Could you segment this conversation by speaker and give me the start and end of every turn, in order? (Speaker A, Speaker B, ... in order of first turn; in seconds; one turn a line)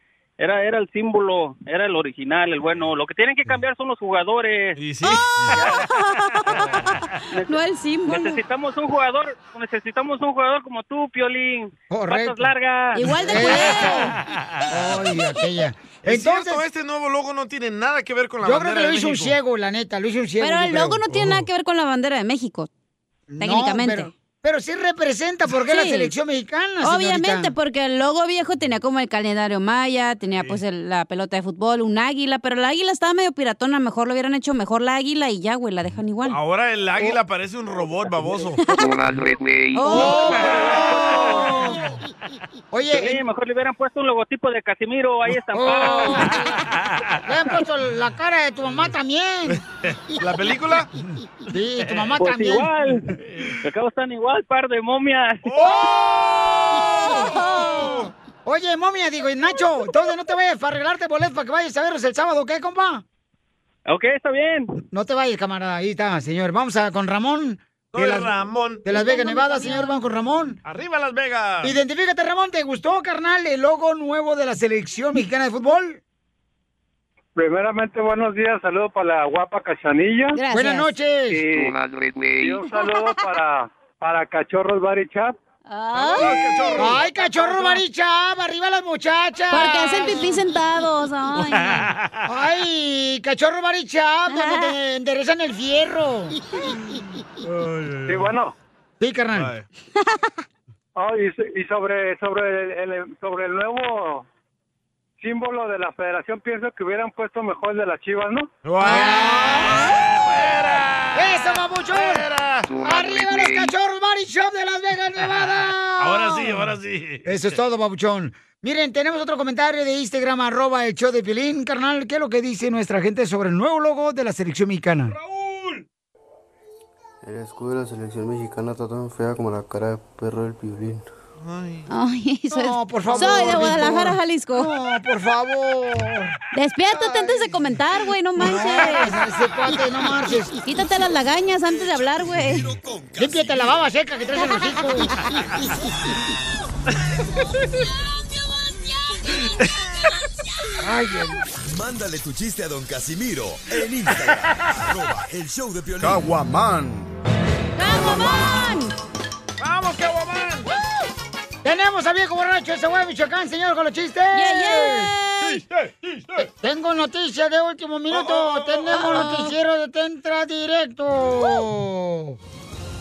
Speaker A: 0.4-4.8
Speaker B: 4.8-5.8
Speaker C: 5.0-8.4
Speaker B: 6.5-6.9
Speaker A: 8.1-13.1
Speaker D: 11.9-12.5
Speaker C: 12.9-14.2
Speaker D: 13.2-14.1
Speaker D: 14.7-16.6
Speaker B: 16.0-19.4
Speaker D: 18.4-21.5
Speaker C: 20.4-22.7
Speaker D: 23.3-27.5
Speaker C: 23.4-24.1
Speaker C: 25.6-26.1
Speaker C: 26.8-36.4
Speaker B: 30.3-30.6
Speaker B: 36.3-38.6
Speaker C: 38.7-39.0
Speaker C: 39.7-40.4
Speaker D: 39.8-41.8
Speaker A: 41.0-41.2
Speaker D: 42.7-43.2
Speaker A: 42.9-46.3
Speaker D: 45.5-46.5
Speaker B: 46.7-47.2
Speaker D: 47.2-49.6
Speaker B: 49.5-50.9
Speaker D: 51.5-52.7
Speaker A: 52.2-53.1
Speaker A: 53.6-55.6
Speaker B: 55.5-58.1
Speaker D: 55.6-55.9
Speaker D: 57.0-57.9
Speaker C: 57.1-58.0
Speaker D: 58.5-63.0
Speaker A: 63.9-64.7
Speaker D: 64.9-68.3
Speaker B: 67.9-68.8
Speaker D: 68.8-70.6
Speaker C: 68.9-70.0
Speaker B: 70.6-71.8
Speaker D: 71.6-76.0
Speaker E: 77.4-80.2
Speaker C: 80.3-80.9
Speaker D: 80.5-81.5
Speaker E: 82.4-85.3
Speaker A: 82.5-83.4
Speaker C: 82.7-83.2
Speaker C: 85.7-86.6
Speaker B: 85.9-87.8
Speaker D: 86.8-90.3
Speaker C: 89.5-91.9
Speaker B: 91.3-92.2
Speaker D: 92.2-96.4
Speaker C: 94.3-94.8
Speaker B: 97.4-98.3
Speaker E: 98.1-98.5
Speaker D: 99.0-99.5
Speaker B: 99.4-99.7
Speaker E: 101.0-104.2
Speaker E: 105.2-108.5
Speaker B: 108.7-112.8
Speaker D: 108.8-109.8
Speaker D: 111.1-112.3
Speaker D: 112.8-116.7
Speaker B: 115.3-117.3
Speaker D: 117.2-125.2
Speaker B: 125.3-125.8
Speaker F: 127.2-131.1
Speaker B: 131.4-131.9
Speaker C: 131.9-134.7
Speaker D: 132.5-136.3
Speaker C: 136.5-139.2
Speaker D: 136.9-137.6
Speaker D: 138.4-140.6
Speaker C: 140.6-142.7
Speaker G: 141.7-143.7
Speaker D: 143.2-145.1
Speaker D: 150.8-151.4
Speaker G: 151.6-156.3
Speaker C: 157.8-158.9
Speaker B: 159.6-160.7
Speaker D: 161.6-165.1
Speaker C: 164.3-165.6
Speaker B: 165.7-166.2
Speaker D: 166.4-172.4
Speaker B: 168.1-169.3
Speaker C: 168.9-169.6